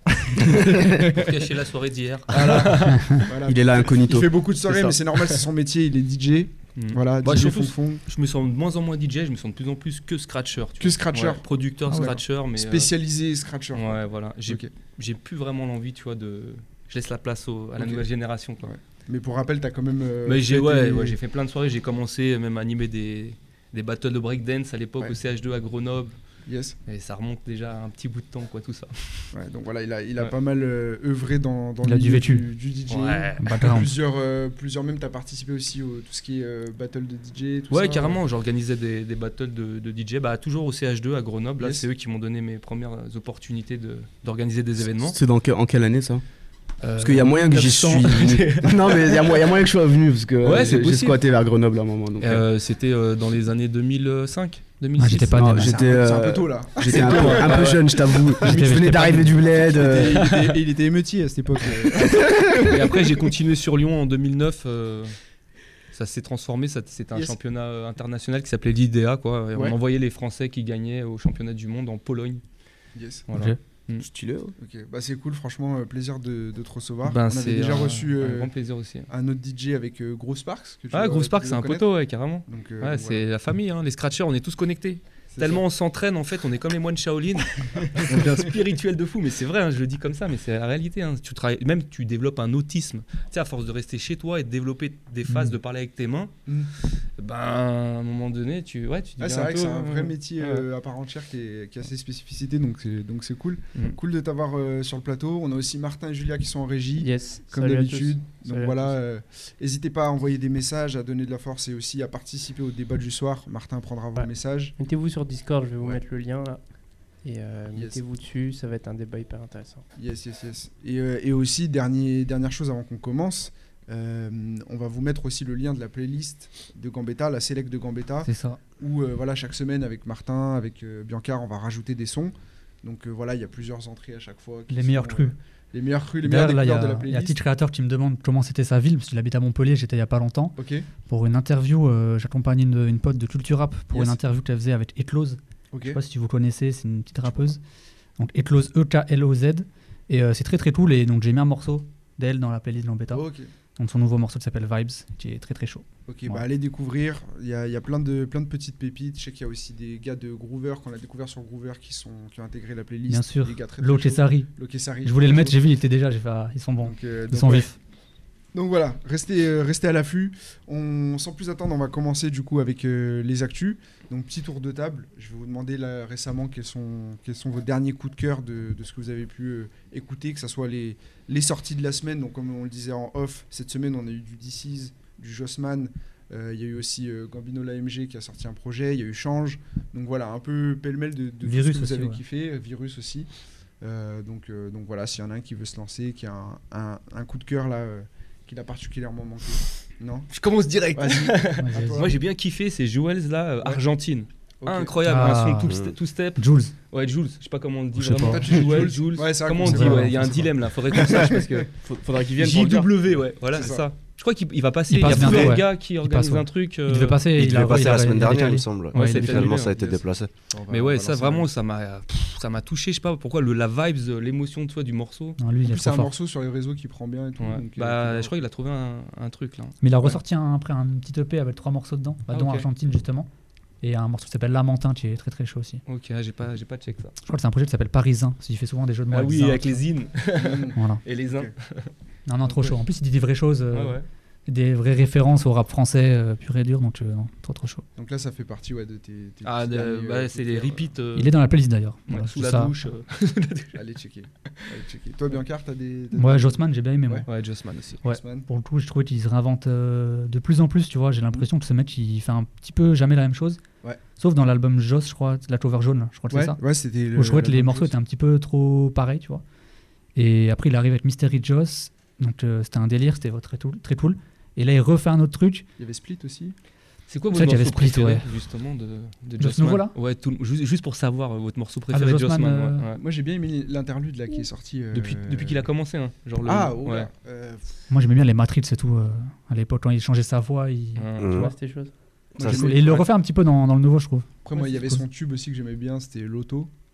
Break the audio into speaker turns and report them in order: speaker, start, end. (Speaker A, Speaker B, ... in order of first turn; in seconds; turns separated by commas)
Speaker A: 0.3-1.1, Speaker B: 0.9-3.3, Speaker A: 2.3-8.0, Speaker C: 2.9-3.2, Speaker D: 3.4-5.0, Speaker B: 6.8-12.9, Speaker A: 10.8-14.7, Speaker B: 13.7-18.7, Speaker A: 17.8-18.0, Speaker A: 18.6-21.1, Speaker B: 20.2-26.1, Speaker A: 26.4-26.8, Speaker B: 26.9-29.2, Speaker A: 29.3-38.2, Speaker C: 31.8-32.5, Speaker B: 32.9-33.5, Speaker C: 33.4-33.9, Speaker B: 37.7-45.2, Speaker A: 41.6-41.9, Speaker D: 45.1-46.2, Speaker B: 46.8-49.6, Speaker D: 47.0-52.5, Speaker B: 50.4-51.2, Speaker B: 52.2-55.6, Speaker C: 55.0-55.8, Speaker D: 55.3-60.3, Speaker A: 55.6-57.8, Speaker B: 56.8-58.3, Speaker A: 58.3-58.6, Speaker C: 58.4-59.4, Speaker A: 59.6-63.1, Speaker B: 60.1-60.5, Speaker B: 62.6-65.1, Speaker B: 65.9-72.4, Speaker A: 72.9-73.3, Speaker B: 73.3-74.0, Speaker C: 73.3-73.6, Speaker D: 74.0-74.5, Speaker A: 74.6-78.5, Speaker B: 77.0-79.1, Speaker A: 79.1-81.9, Speaker B: 80.9-96.3, Speaker A: 82.5-83.2, Speaker A: 85.3-85.6, Speaker A: 87.8-88.3, Speaker C: 95.3-95.5, Speaker B: 97.2-100.6, Speaker A: 99.2-114.7, Speaker E: 107.0-109.0, Speaker E: 114.2-116.6, Speaker E: 117.2-119.8, Speaker A: 117.7-118.0, Speaker A: 120.0-137.4, Speaker C: 128.2-128.6, Speaker C: 134.7-135.3, Speaker C: 136.2-147.6, Speaker A: 140.6-140.9, Speaker A: 143.9-144.2, Speaker A: 145.7-146.0, Speaker A: 147.2-147.5, Speaker C: 148.2-153.2, Speaker A: 153.1-153.5, Speaker C: 153.8-156.4, Speaker A: 156.1-165.6, Speaker C: 163.1-164.5, Speaker C: 165.0-167.8, Speaker A: 166.8-167.7, Speaker A: 168.5-193.3, Speaker C: 191.4-192.2, Speaker A: 193.8-200.3, Speaker B: 200.3-211.7, Speaker A: 200.9-202.1, Speaker C: 201.6-202.1, Speaker A: 204.6-204.9, Speaker C: 205.0-205.7, Speaker F: 205.7-205.9, Speaker C: 206.4-206.7, Speaker C: 208.0-208.9, Speaker A: 208.1-211.4, Speaker C: 209.6-210.4, Speaker D: 211.8-212.9, Speaker B: 212.4-217.2, Speaker A: 213.5-213.8, Speaker C: 214.9-219.6, Speaker F: 215.1-215.5, Speaker F: 217.3-220.3, Speaker B: 218.9-220.0, Speaker A: 220.5-221.5, Speaker B: 220.7-225.4, Speaker C: 225.4-226.1, Speaker A: 225.6-228.3, Speaker B: 227.4-229.8, Speaker C: 229.8-233.3, Speaker A: 232.3-232.6, Speaker B: 232.4-232.6, Speaker C: 233.8-235.8, Speaker B: 235.9-237.1, Speaker C: 237.2-239.8, Speaker B: 239.1-241.9, Speaker A: 240.3-240.8, Speaker C: 240.7-241.0, Speaker C: 242.3-247.8, Speaker B: 242.5-242.7, Speaker B: 243.7-244.0, Speaker A: 248.0-250.9, Speaker B: 249.4-251.3, Speaker C: 251.2-252.8, Speaker B: 252.1-253.8, Speaker A: 253.7-257.3, Speaker C: 256.1-257.3, Speaker B: 257.3-258.0, Speaker C: 258.0-263.6, Speaker A: 258.0-258.5, Speaker C: 264.2-266.6, Speaker A: 266.3-267.9, Speaker C: 267.1-269.4, Speaker C: 270.1-275.6, Speaker A: 275.8-276.5, Speaker B: 277.1-283.0, Speaker C: 277.3-278.2, Speaker C: 279.4-279.9, Speaker C: 281.9-282.9, Speaker A: 283.0-285.6, Speaker B: 284.9-287.1, Speaker A: 286.4-287.6, Speaker C: 287.9-291.5, Speaker B: 290.9-291.5, Speaker F: 291.2-291.5, Speaker E: 291.3-291.9, Speaker A: 292.4-293.1, Speaker F: 292.4-292.7, Speaker C: 292.4-295.0, Speaker A: 294.4-296.7